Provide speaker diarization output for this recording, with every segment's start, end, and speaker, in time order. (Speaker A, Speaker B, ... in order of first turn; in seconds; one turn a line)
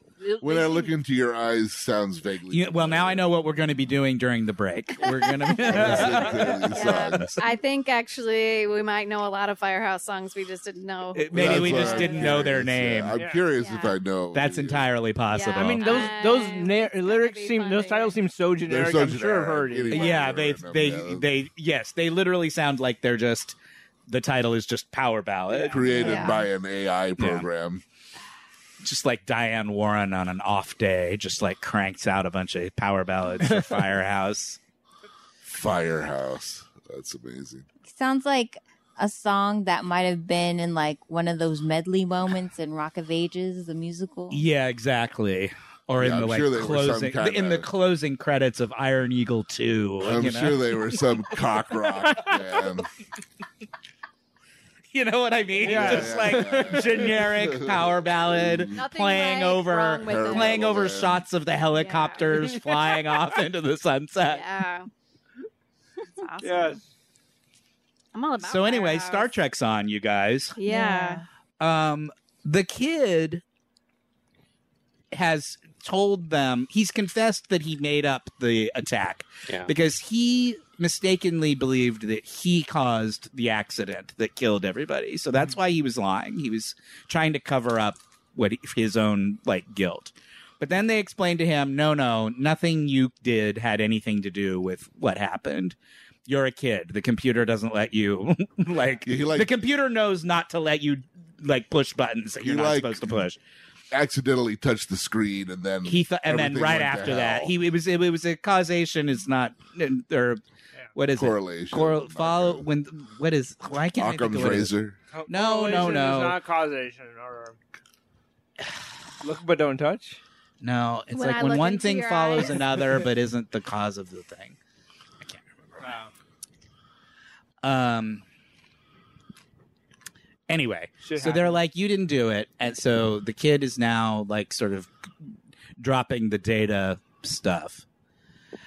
Speaker A: 0.2-0.9
Speaker B: 0.4-3.3
Speaker C: 2.5-7.2
Speaker B: 5.6-7.4
Speaker A: 5.7-6.5
Speaker D: 6.7-12.4
Speaker C: 11.1-13.2
Speaker B: 11.3-14.9
Speaker A: 13.1-13.4
Speaker D: 13.4-14.0
Speaker C: 14.3-16.1
Speaker D: 15.3-18.2
Speaker A: 15.6-20.1
Speaker B: 18.7-21.3
Speaker C: 19.9-23.6
Speaker C: 24.1-25.8
Speaker A: 25.5-26.0
Speaker B: 25.7-27.8
Speaker D: 25.9-26.4
Speaker E: 26.0-26.3
Speaker C: 27.2-27.5
Speaker C: 28.8-34.6
Speaker A: 33.4-33.9
Speaker B: 35.4-37.6
Speaker E: 37.9-44.4
Speaker C: 44.3-50.7
Speaker B: 46.0-47.7
Speaker B: 50.0-52.9
Speaker A: 52.1-52.4
Speaker C: 54.9-64.5
Speaker A: 55.6-57.1
Speaker B: 55.6-58.8
Speaker D: 58.7-60.6
Speaker B: 60.0-61.2
Speaker D: 61.7-62.3
Speaker A: 62.4-63.4
Speaker D: 64.2-64.9
Speaker D: 66.2-66.8
Speaker A: 66.4-66.8
Speaker D: 68.1-69.3
Speaker C: 68.4-70.6
Speaker D: 70.5-71.2
Speaker E: 70.7-71.2
Speaker C: 71.6-73.4
Speaker C: 75.1-103.4
Speaker B: 99.0-99.5
Speaker B: 102.4-103.2
Speaker B: 103.9-107.5
Speaker C: 105.8-110.4
Speaker C: 110.9-114.7
Speaker B: 111.1-112.7
Speaker B: 114.0-115.0
Speaker A: 115.1-117.6
Speaker C: 115.3-116.4
Speaker A: 119.2-120.2
Speaker C: 120.6-124.5
Speaker D: 121.1-122.6
Speaker A: 125.8-126.1
Speaker C: 127.6-128.2
Speaker C: 130.5-134.9
Speaker A: 131.0-131.6
Speaker C: 135.8-137.8